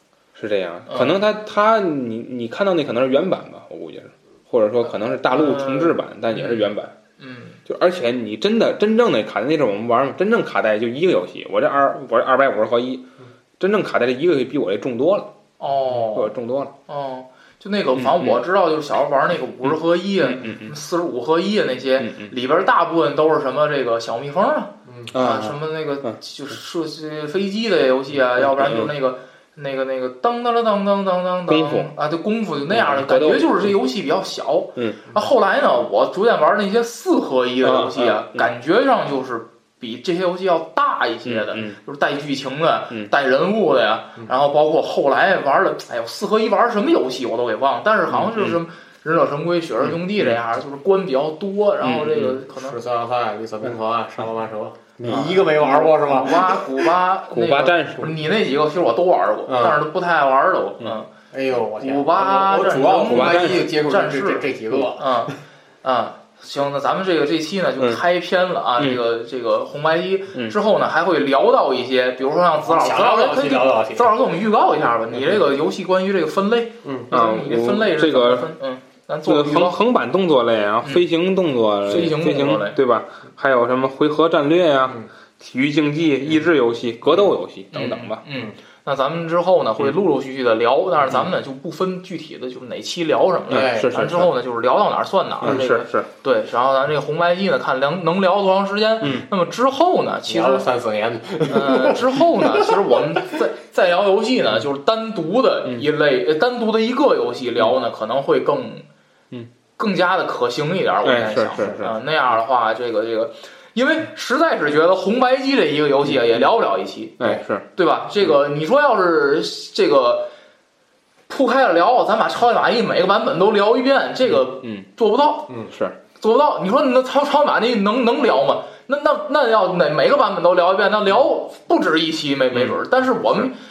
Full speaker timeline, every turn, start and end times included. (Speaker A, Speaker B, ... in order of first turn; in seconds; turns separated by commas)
Speaker A: 0.3-6.9, Speaker B: 0.9-1.2, Speaker B: 5.3-7.6, Speaker A: 7.7-13.1, Speaker A: 13.6-15.3, Speaker B: 15.6-16.3, Speaker A: 16.0-16.7, Speaker B: 16.9-52.8, Speaker A: 18.0-18.4, Speaker A: 19.7-20.7, Speaker A: 22.0-22.3, Speaker C: 24.9-25.1, Speaker A: 25.1-26.2, Speaker A: 28.4-28.9, Speaker A: 31.5-31.9, Speaker A: 32.7-33.7, Speaker A: 34.8-35.1, Speaker A: 37.6-38.5, Speaker A: 41.2-41.8, Speaker A: 48.1-48.6, Speaker A: 49.8-50.4, Speaker A: 51.8-52.4, Speaker C: 52.5-56.5, Speaker A: 55.0-55.4, Speaker B: 55.1-61.1, Speaker A: 56.4-58.1, Speaker C: 59.5-59.8, Speaker C: 61.3-65.2, Speaker B: 61.8-79.8, Speaker A: 63.1-63.6, Speaker C: 72.6-74.1, Speaker C: 76.8-77.1, Speaker A: 77.1-78.5, Speaker A: 79.3-88.2, Speaker B: 80.8-81.1, Speaker B: 81.8-82.8, Speaker B: 87.7-100.7, Speaker C: 93.5-94.0, Speaker A: 93.5-94.3, Speaker A: 95.4-96.1, Speaker C: 100.3-103.2, Speaker B: 101.5-108.9, Speaker B: 109.8-120.3, Speaker A: 111.0-112.0, Speaker A: 117.2-117.7, Speaker B: 121.3-125.5, Speaker A: 124.3-124.9, Speaker A: 125.7-126.0, Speaker B: 126.2-133.6, Speaker A: 132.5-132.8